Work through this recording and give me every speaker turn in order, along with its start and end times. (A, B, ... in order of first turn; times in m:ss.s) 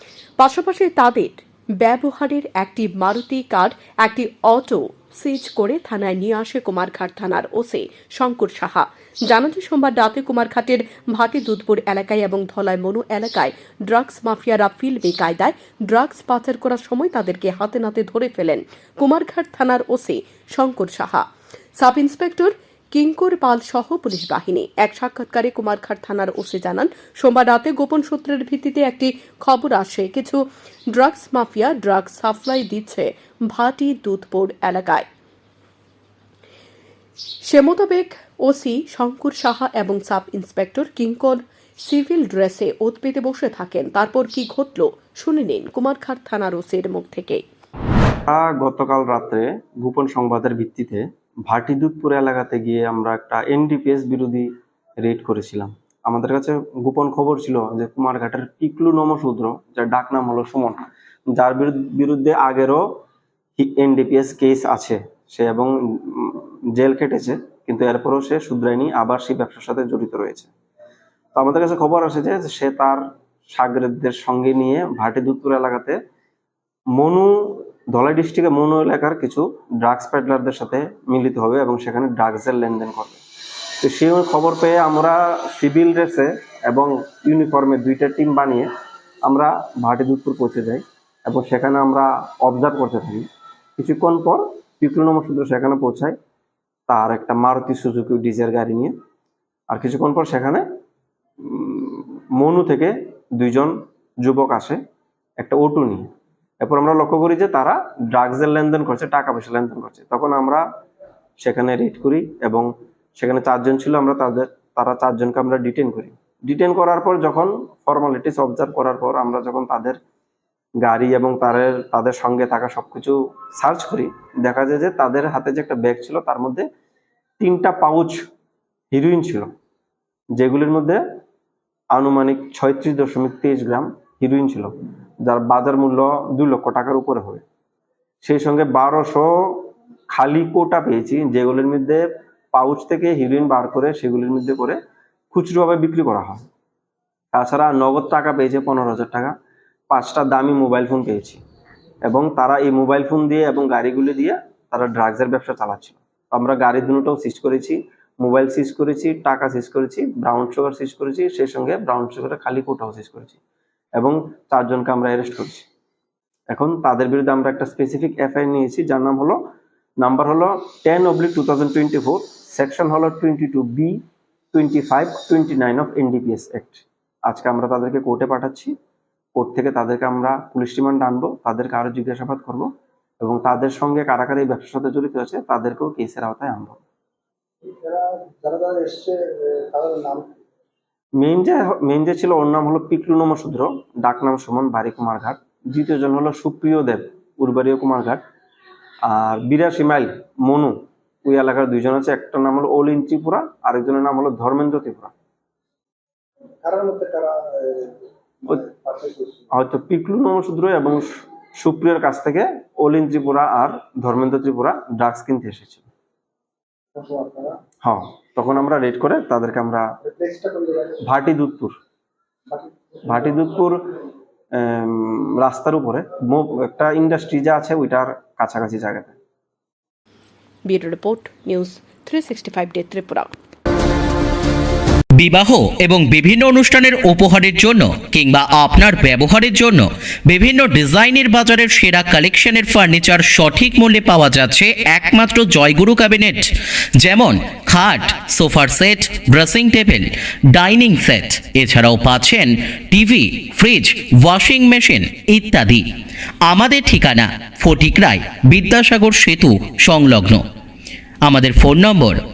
0:00.4-0:21.2 A
0:21.8-0:35.0 A
0:37.4-0:47.4 A
0:48.3-0:54.5 B
0:55.0-1:02.8 B
1:03.6-1:10.5 B
1:11.3-1:16.0 B
1:16.9-1:23.2 B
1:23.8-1:28.7 B
1:29.2-1:33.2 B
1:33.8-1:36.2 B
1:36.9-1:38.9 B
1:39.7-1:40.6 B
1:41.4-1:44.8 B
1:45.4-1:46.1 B
1:46.6-1:50.6 B
1:51.4-2:00.0 B
2:00.8-2:06.6 B
2:07.4-2:08.2 B
2:08.9-2:09.5 B
2:10.4-2:11.0 B
2:11.9-2:14.7 B
2:15.2-2:17.4 B
2:18.2-2:24.8 B
2:25.3-2:26.4 B
2:27.3-2:29.3 B
2:29.9-2:31.4 B
2:32.0-2:43.4 B
2:44.0-2:45.7 B
2:46.5-2:49.4 B
2:50.0-2:54.0 B
2:54.5-2:58.7 B
2:59.4-3:02.7 B
3:03.2-3:06.8 B
3:07.6-3:10.3 C
3:11.2-3:18.2 B
3:19.0-3:25.1 B
3:26.6-3:29.5 C
3:29.5-3:35.9 B
3:36.9-3:37.6 C
3:37.8-3:39.9 B
3:40.0-3:41.0 C
3:41.0-3:41.8 B
3:42.5-3:43.5 C
3:43.1-3:43.8 B
3:44.6-3:49.1 B
3:50.7-3:53.3 A
3:55.2-4:06.5 D
4:07.0-4:15.8 D
4:16.4-4:20.4 D
4:21.2-4:22.2 D